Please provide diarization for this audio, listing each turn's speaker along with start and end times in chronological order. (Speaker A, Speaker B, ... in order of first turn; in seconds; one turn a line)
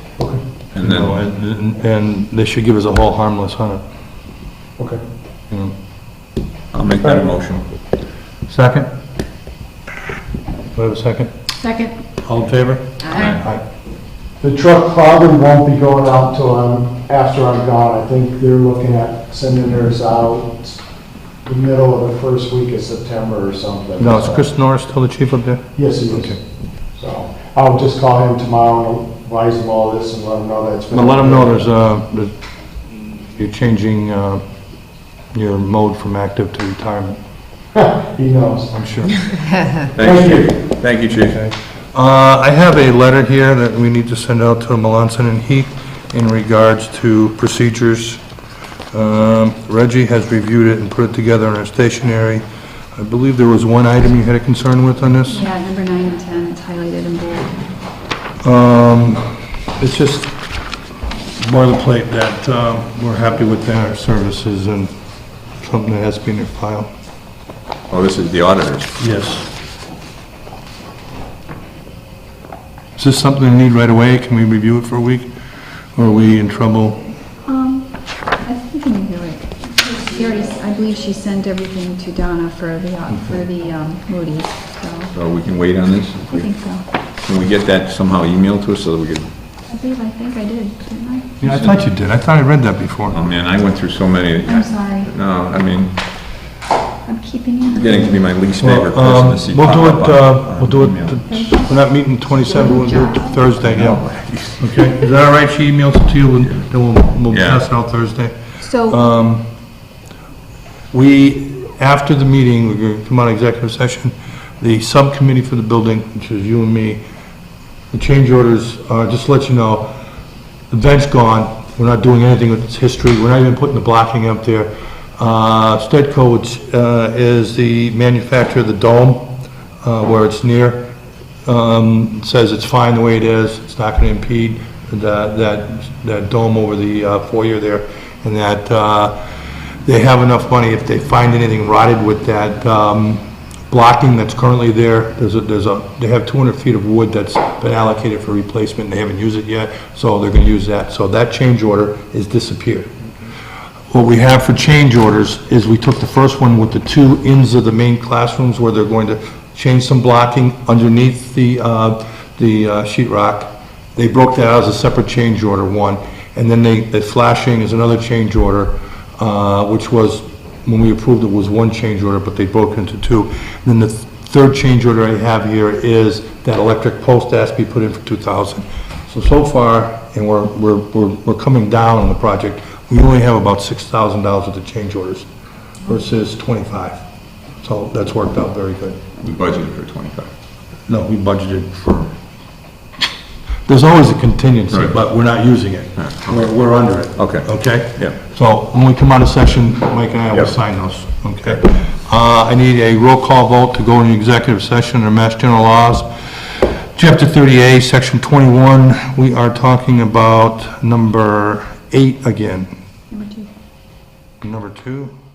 Speaker A: 0.7-1.2
Speaker B: 0.8-3.8
Speaker A: 6.7-7.7
Speaker B: 8.5-8.9
Speaker B: 10.7-11.3
Speaker C: 11.6-11.9
Speaker B: 12.2-13.6
Speaker A: 13.1-13.4
Speaker D: 14.4-20.8
Speaker D: 21.4-24.4
Speaker B: 24.0-26.4
Speaker D: 25.8-26.4
Speaker D: 26.9-31.6
Speaker B: 30.9-32.3
Speaker B: 32.9-34.4
Speaker B: 35.3-37.2
Speaker D: 37.7-38.7
Speaker B: 38.7-39.2
Speaker A: 39.9-41.5
Speaker D: 40.0-40.6
Speaker B: 41.9-48.2
Speaker B: 48.9-52.4
Speaker B: 53.0-55.4
Speaker C: 55.3-57.6
Speaker B: 58.4-60.3
Speaker B: 61.4-64.9
Speaker B: 65.6-66.9
Speaker A: 67.9-69.0
Speaker B: 69.0-69.5
Speaker B: 73.0-75.3
Speaker B: 76.0-77.0
Speaker C: 77.5-85.2
Speaker A: 85.1-86.5
Speaker C: 86.3-86.8
Speaker A: 87.2-89.3
Speaker C: 89.7-91.4
Speaker B: 91.4-93.2
Speaker A: 91.5-91.7
Speaker A: 93.1-95.9
Speaker C: 94.4-95.1
Speaker C: 97.0-98.2
Speaker A: 97.7-101.3
Speaker B: 98.6-104.0
Speaker C: 101.3-101.8
Speaker C: 102.5-103.2
Speaker A: 103.6-104.7
Speaker B: 104.6-109.4
Speaker A: 107.3-107.6
Speaker C: 108.6-109.0
Speaker B: 110.9-117.0
Speaker B: 117.9-119.9
Speaker B: 120.7-130.9
Speaker B: 131.4-139.2
Speaker B: 139.8-152.9
Speaker B: 153.9-185.3
Speaker B: 185.8-187.0
Speaker B: 187.6-189.0
Speaker A: 189.2-190.3
Speaker B: 190.9-192.1
Speaker B: 193.7-212.7
Speaker A: 196.0-196.5
Speaker A: 197.2-198.2
Speaker C: 213.1-213.5
Speaker B: 214.4-215.1